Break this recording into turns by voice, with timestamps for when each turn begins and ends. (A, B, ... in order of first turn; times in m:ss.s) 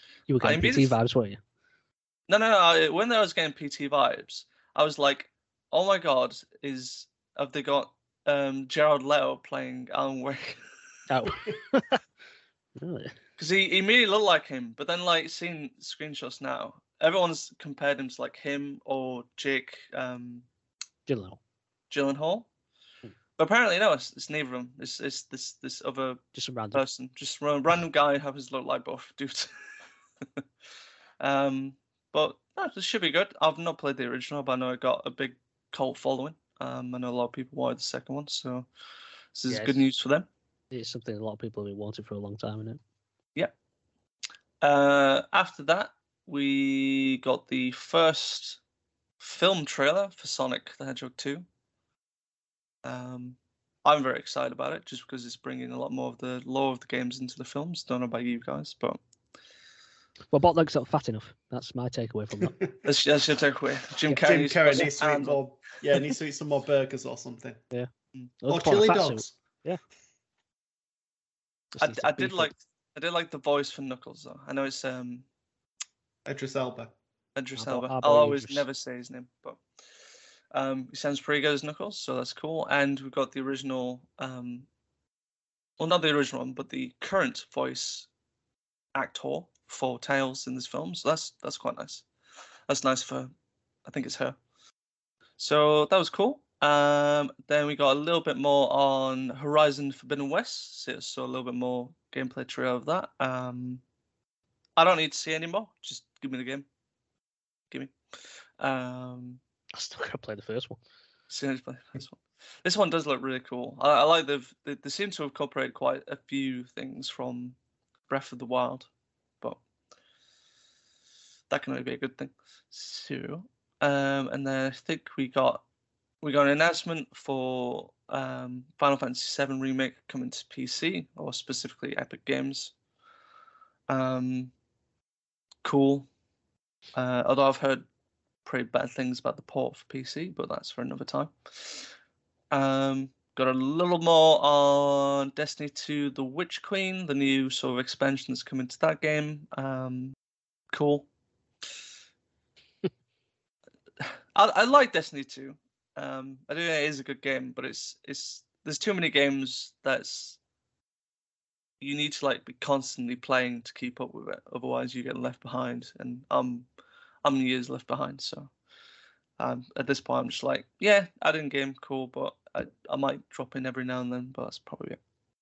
0:00.3-0:01.4 A
0:00.4-0:01.0 B
0:02.3-0:10.6 B
0:11.1-0:12.0 A
0:12.8-0:13.2 A
0:13.4-0:20.5 B
0:21.1-0:21.4 A
0:21.9-0:22.5 B
0:23.4-0:29.5 B
0:26.4-0:26.8 A
0:31.2-0:38.7 B
0:39.3-0:40.3 B
0:39.5-0:39.8 A
0:40.7-0:42.8 A
0:44.6-0:48.6 B
0:49.2-0:51.5 B
0:52.8-0:59.0 B
1:00.3-1:02.6 A
1:02.8-1:05.4 B
1:04.1-1:07.6 C
1:08.4-1:09.8 A
1:08.5-1:09.3 C
1:11.8-1:12.5 A
1:11.8-1:15.3 B
1:16.3-1:16.9 C
1:17.4-1:19.6 B
1:17.6-1:18.6 A
1:20.5-1:24.7 B
1:25.8-1:28.1 B
1:29.0-1:32.0 B
1:32.7-1:33.3 B
1:33.9-1:34.4 B
1:35.4-1:43.8 B
1:44.8-1:46.7 B
1:48.6-1:49.4 B
1:49.7-1:50.8 A
1:51.3-1:57.6 B
1:58.1-1:58.9 B
2:01.5-2:05.6 B
2:06.2-2:12.7 B
2:13.9-2:14.5 B
2:15.6-2:16.1 B
2:17.0-2:17.9 B
2:18.4-2:21.9 B
2:22.5-2:30.2 B
2:30.7-2:31.1 B
2:34.0-2:40.4 B
2:41.8-2:46.7 B
2:47.2-2:48.5 B
2:49.4-2:55.0 B